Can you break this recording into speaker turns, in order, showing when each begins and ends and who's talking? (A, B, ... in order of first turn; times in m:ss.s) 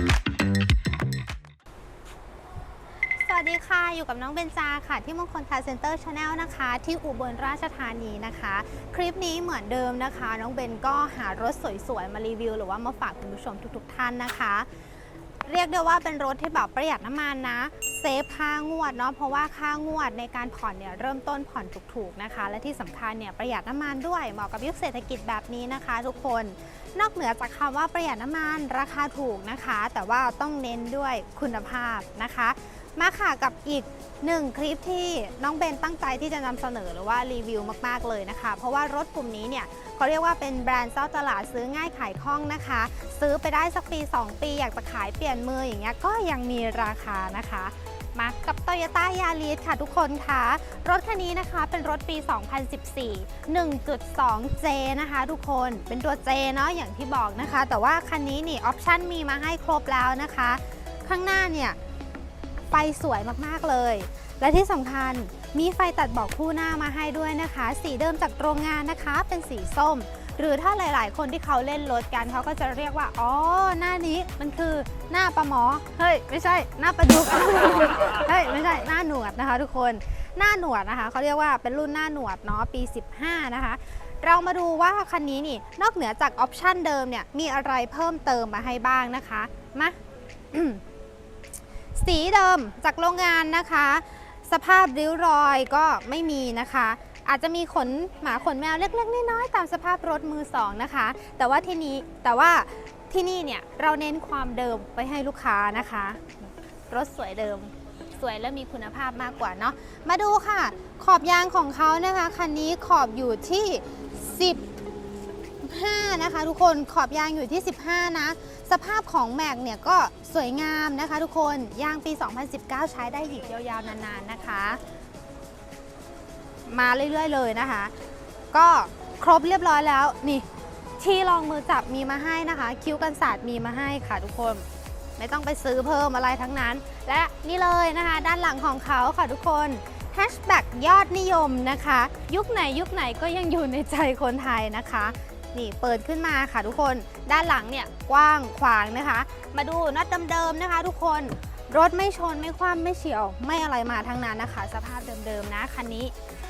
0:03.2-0:14.7 A
0:15.4-1:01.8 A
1:02.7-1:30.0 A
1:30.5-1:30.8 A
1:31.9-1:54.6 A
1:55.6-2:04.8 A
2:06.6-2:07.9 A
2:08.5-2:10.4 A
2:11.0-2:14.6 A
2:15.2-2:36.1 A